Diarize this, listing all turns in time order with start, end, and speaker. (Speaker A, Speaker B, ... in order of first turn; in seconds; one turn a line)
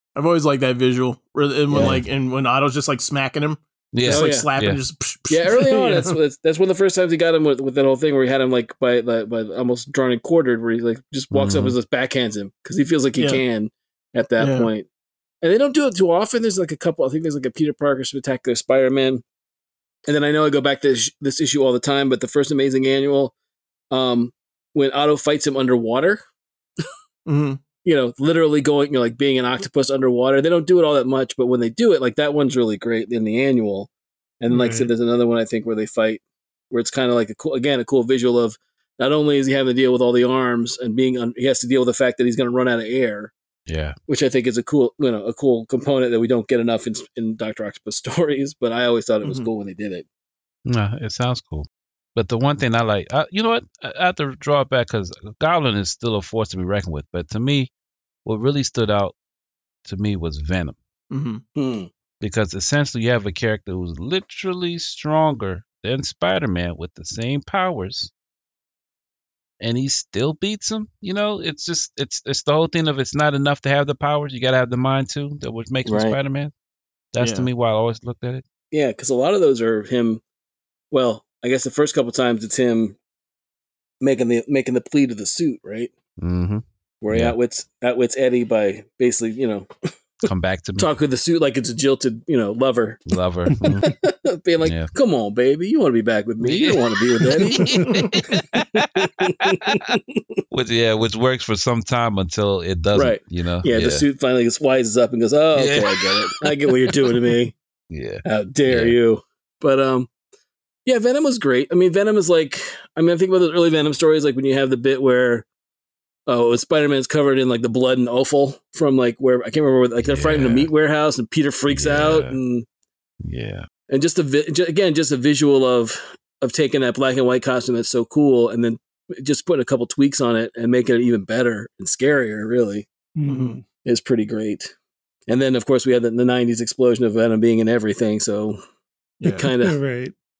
Speaker A: 0.2-6.2
Speaker B: 1.7-2.0
Speaker C: 1.7-2.0
Speaker C: 3.9-4.8
Speaker B: 4.1-4.5
Speaker B: 5.3-14.9
Speaker C: 11.3-11.8
Speaker A: 13.2-13.4
Speaker A: 14.4-14.7
Speaker B: 15.4-19.2
Speaker B: 20.1-23.3
Speaker B: 23.9-26.2
Speaker A: 27.3-27.6
Speaker B: 27.8-43.3
Speaker D: 34.5-34.9
Speaker C: 43.7-44.0
Speaker B: 44.1-50.0
Speaker A: 49.2-49.5
Speaker C: 50.7-57.7
Speaker C: 58.2-59.2
Speaker C: 59.9-60.8
Speaker A: 61.1-61.4
Speaker B: 61.6-61.9
Speaker C: 62.2-68.1
Speaker C: 69.6-76.5
Speaker B: 75.8-76.2
Speaker C: 77.1-78.4
Speaker A: 77.2-77.5
Speaker B: 78.7-80.2
Speaker B: 80.9-83.0
Speaker B: 84.0-85.9
Speaker C: 86.2-87.4
Speaker B: 87.0-89.7
Speaker C: 90.2-90.9
Speaker B: 90.8-93.1
Speaker C: 93.1-94.0
Speaker D: 93.7-93.9
Speaker B: 93.9-100.2
Speaker C: 94.6-94.9
Speaker C: 96.4-99.9
Speaker D: 97.6-97.9
Speaker C: 100.5-104.0
Speaker B: 103.0-107.6
Speaker C: 105.5-107.2
Speaker C: 107.9-109.0
Speaker B: 108.2-110.1
Speaker B: 110.9-115.5
Speaker B: 116.3-122.7
Speaker C: 120.0-120.7
Speaker C: 121.7-122.4
Speaker C: 123.2-123.7
Speaker B: 123.9-132.9
Speaker D: 133.2-133.6
Speaker A: 133.3-133.6
Speaker B: 133.8-134.7
Speaker B: 135.3-138.6
Speaker A: 139.2-139.5
Speaker B: 139.2-139.8
Speaker D: 139.6-140.2